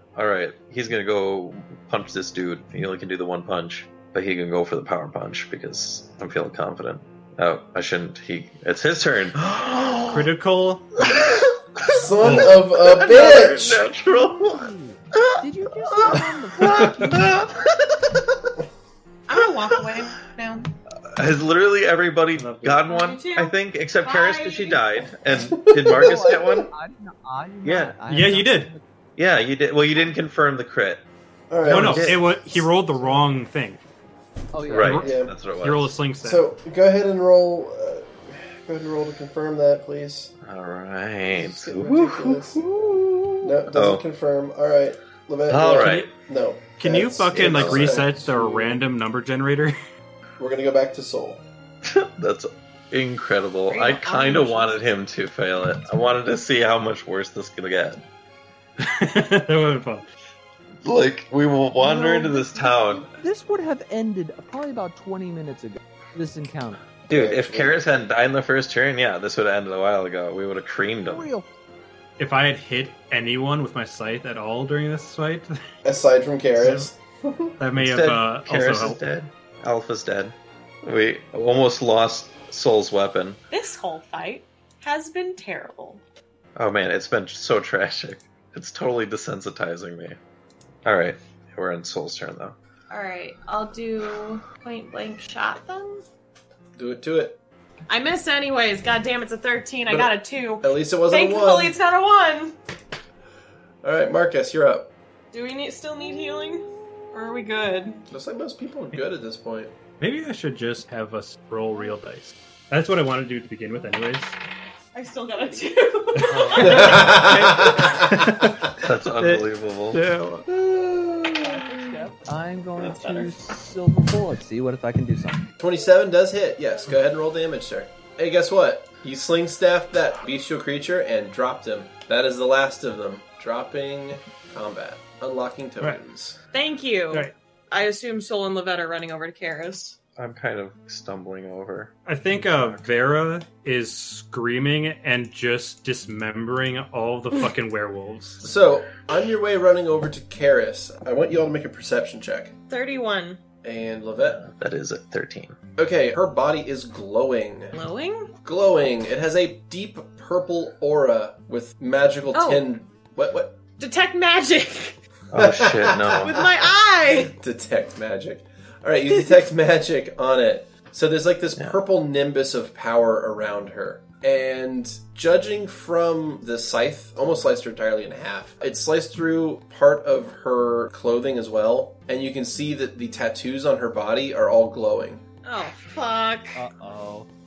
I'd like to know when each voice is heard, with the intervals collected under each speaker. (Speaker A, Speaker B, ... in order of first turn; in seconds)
Speaker A: 0.2-10.3, 11.1-18.2, 20.9-26.7, 27.6-28.0, 29.2-31.0, 31.7-32.2, 34.7-36.0, 40.4-44.0, 45.5-46.1, 47.3-48.1, 51.9-58.0, 60.8-63.1, 67.0-71.3, 77.8-83.4, 86.6-90.2, 90.8-92.6, 116.3-117.0, 118.8-120.0, 140.2-142.8, 154.2-155.6, 165.3-166.4
Speaker B: 10.1-11.3, 12.2-12.6, 22.4-22.8, 28.1-28.7, 31.7-33.8, 34.7-36.5, 45.8-46.1, 46.8-49.8, 58.8-60.1, 72.2-75.5, 76.6-76.9, 77.6-79.0, 110.0-114.4, 116.2-120.5, 142.1-148.4
Speaker C: 11.9-13.8, 25.3-26.7, 31.5-32.7, 34.8-35.3, 36.2-40.3, 41.3-42.6, 43.4-48.8, 50.4-51.4, 67.1-67.8, 75.8-77.6, 96.8-97.4, 99.9-101.8, 103.8-104.9, 108.1-109.7, 116.6-118.7, 125.6-136.4, 148.4-152.5, 153.6-154.4, 155.8-157.8, 158.4-163.6, 165.3-166.4, 167.2-185.2
Speaker D: 14.1-17.3, 25.9-28.8, 34.5-35.1, 61.8-66.8, 71.1-71.5, 121.3-125.5, 186.6-187.3
Speaker E: 19.3-20.7, 22.9-24.8, 53.7-54.8, 83.5-86.0, 92.9-96.0, 97.9-102.6, 105.3-108.0, 114.9-117.2, 122.9-123.3, 136.5-140.0, 152.7-153.4, 157.7-158.3, 162.3-162.7, 163.8-165.0, 166.2-167.3, 185.4-186.6